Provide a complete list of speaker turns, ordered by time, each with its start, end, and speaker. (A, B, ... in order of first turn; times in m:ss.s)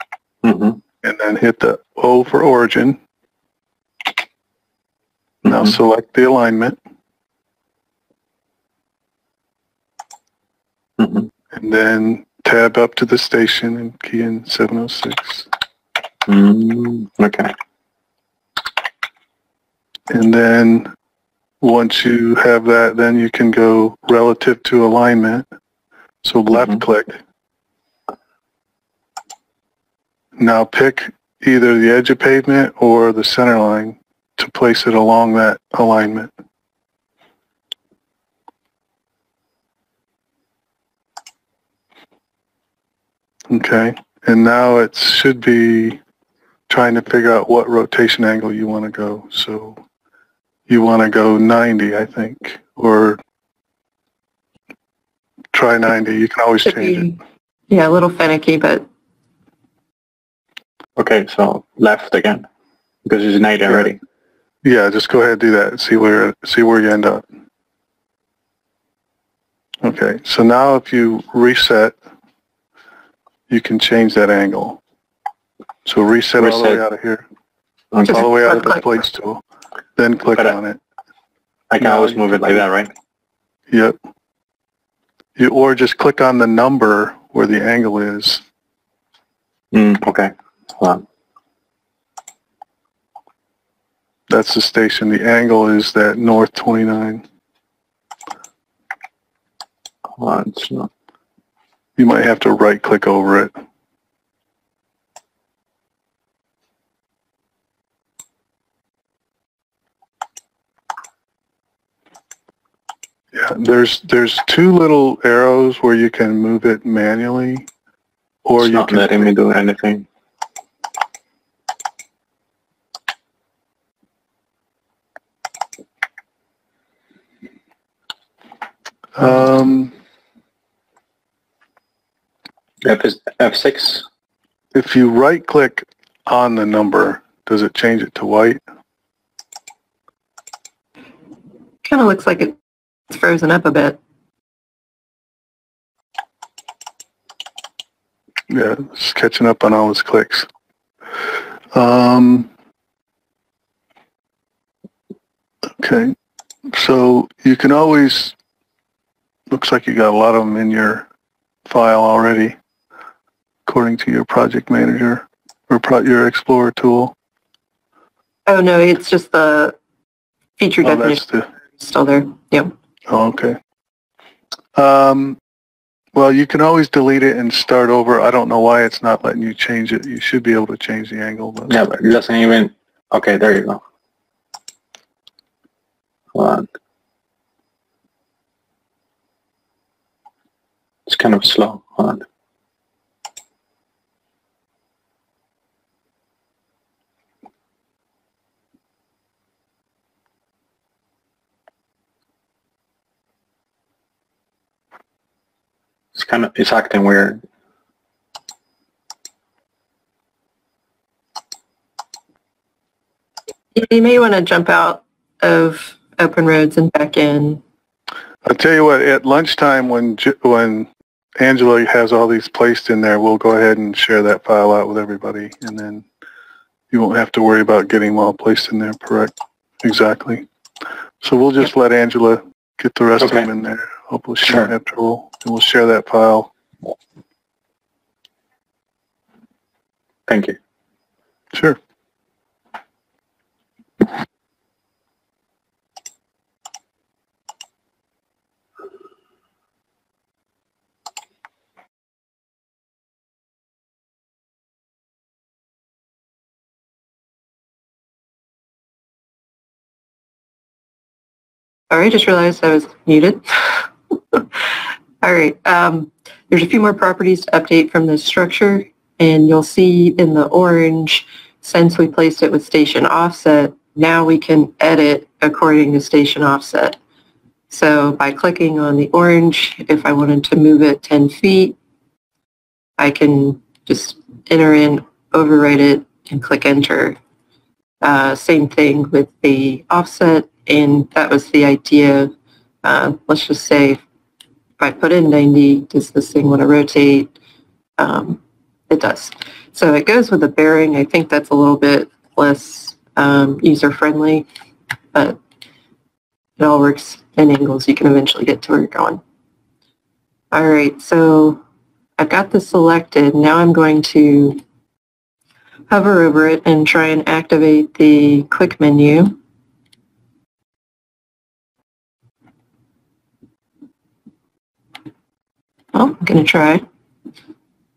0:00.4-0:00.8 A
0:01.0-0:03.0 B
0:05.4-0:05.7 A
0:05.4-0:06.8 B
0:11.0-0:11.3 A
0:11.5-0:15.5 B
0:16.3-0:17.5 A
0:20.1-0:20.9 B
0:21.6-0:25.4 B
0:26.2-0:27.2 B
0:30.4-0:36.3 B
0:43.5-0:46.0 B
0:46.7-0:49.8 B
0:50.7-0:53.2 B
0:55.5-0:57.1 B
0:56.6-0:57.2 C
0:57.7-0:58.9 C
1:01.0-1:02.4 A
1:03.1-1:04.0 A
1:04.6-1:07.2 B
1:09.8-1:12.0 B
1:13.5-1:14.8 B
1:15.8-1:17.2 B
1:16.4-1:16.8 A
1:17.9-1:18.3 A
1:18.0-1:19.4 B
1:18.1-1:18.8 C
1:20.0-1:20.8 B
1:21.7-1:22.9 A
1:21.8-1:22.6 B
1:23.7-1:24.0 B
1:25.4-1:28.4 B
1:29.7-1:31.0 A
1:34.3-1:37.2 B
1:40.2-1:40.9 A
1:42.0-1:43.5 B
1:53.3-1:57.7 B
1:58.4-1:59.3 B
1:58.6-2:00.1 A
2:09.2-2:09.9 B
2:12.8-2:14.0 A
2:14.7-2:18.6 B
2:21.8-2:22.6 C
2:23.1-2:24.0 C
2:28.5-2:30.5 B
2:31.7-2:32.5 B
2:35.8-2:36.1 B
2:36.7-2:38.4 B
2:39.5-2:41.1 B
2:41.7-2:42.6 B
2:43.7-2:47.1 B
2:48.4-2:49.8 C
2:50.6-2:51.2 C
2:50.8-2:51.4 B
2:51.8-2:52.7 C
2:53.1-2:53.6 B
2:54.8-2:55.4 B
2:56.1-3:01.8 B
3:01.7-3:03.8 A
3:06.4-3:06.7 A
3:11.1-3:12.2 A
3:26.1-3:27.4 A
3:33.7-3:37.6 C
3:38.4-3:40.9 B
3:41.4-3:46.1 B
3:46.9-3:50.4 B
3:51.2-3:56.5 B
3:53.2-3:53.5 A
3:54.4-3:54.7 A
4:00.3-4:00.6 A
4:01.5-4:01.8 B
4:21.9-4:24.4 C
4:25.2-4:37.0 C
4:37.7-4:41.8 C
4:43.0-4:47.2 C
4:48.0-4:52.3 C
4:52.8-4:54.0 C
4:54.8-4:57.3 C
4:58.0-5:04.5 C
5:06.6-5:09.2 C
5:10.5-5:11.6 C
5:12.2-5:14.6 C
5:15.9-5:19.4 C
5:25.9-5:26.8 C